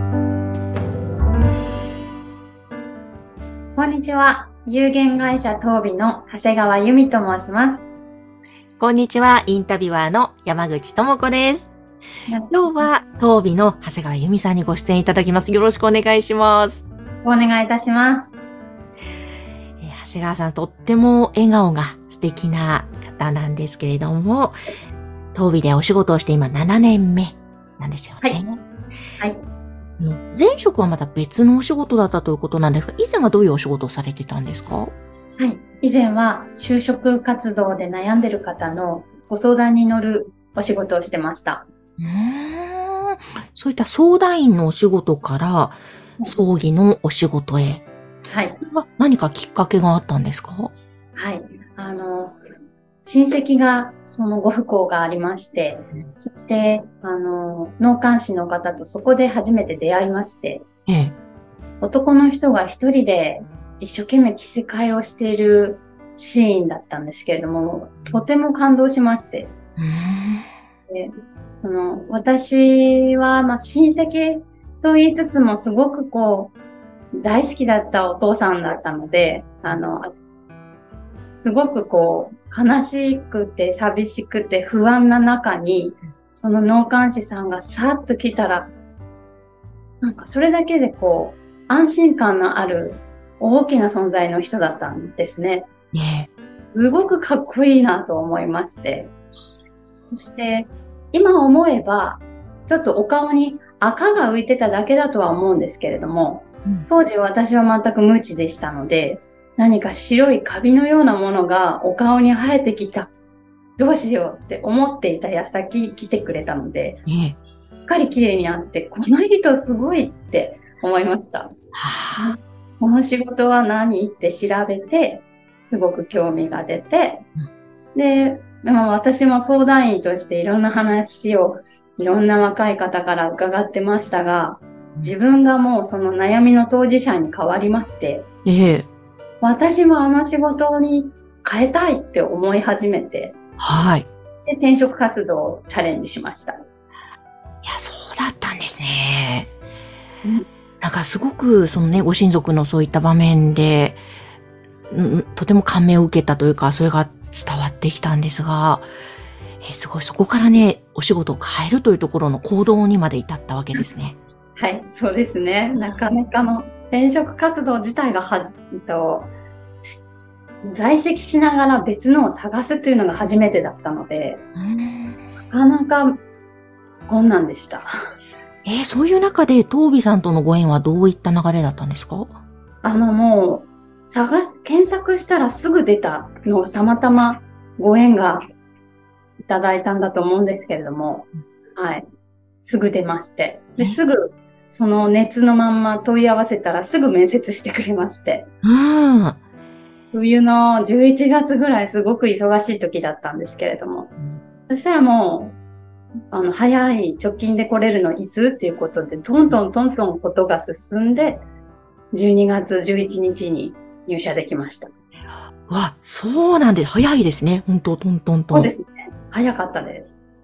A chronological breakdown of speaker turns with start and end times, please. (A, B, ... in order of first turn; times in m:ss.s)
0:03.8-0:07.9 A
0:08.8-0:11.7 B
0:12.3-0:12.9 A
0:12.5-0:16.8 B
0:17.2-0:18.4 A
0:19.8-0:24.6 B
0:25.3-0:28.6 B
0:30.0-0:34.9 B
0:35.4-0:41.6 A
0:42.0-0:47.8 B
0:48.3-0:48.6 A
0:48.6-0:50.7 B
0:51.1-0:52.4 A
0:53.0-1:00.6 A
1:00.9-1:01.1 B
1:01.8-1:09.5 A
1:09.8-1:10.5 B
1:10.9-1:16.5 A
1:17.1-1:20.1 A
1:21.3-1:28.7 A
1:30.0-1:35.7 A
1:35.9-1:36.3 B
1:36.7-1:39.1 A
1:40.1-1:53.1 A
1:53.8-1:57.0 A
1:57.1-1:57.4 B
1:57.9-2:01.5 A
2:01.8-2:02.3 B
2:02.2-2:07.2 A
2:07.9-2:18.2 A
2:18.4-2:18.9 B
2:19.4-2:23.3 A
2:23.6-2:24.1 B
2:24.4-2:26.6 A
2:27.6-2:29.5 B
2:30.8-2:34.0 B
2:34.9-2:38.9 B
2:39.6-2:44.2 B
2:44.6-2:50.0 A
2:45.7-2:46.0 B
2:50.6-2:54.4 A
2:54.6-2:55.2 B
2:55.5-2:56.2 A
2:57.1-2:57.9 A
2:58.6-3:02.3 B
3:02.8-3:08.4 A
3:09.4-3:12.0 A
3:12.6-3:18.5 A
3:18.6-3:19.4 B
3:20.1-3:24.1 A
3:24.7-3:25.6 A
3:26.3-3:31.4 A
3:32.1-3:34.9 A
3:35.7-3:38.7 B
3:38.5-3:40.2 A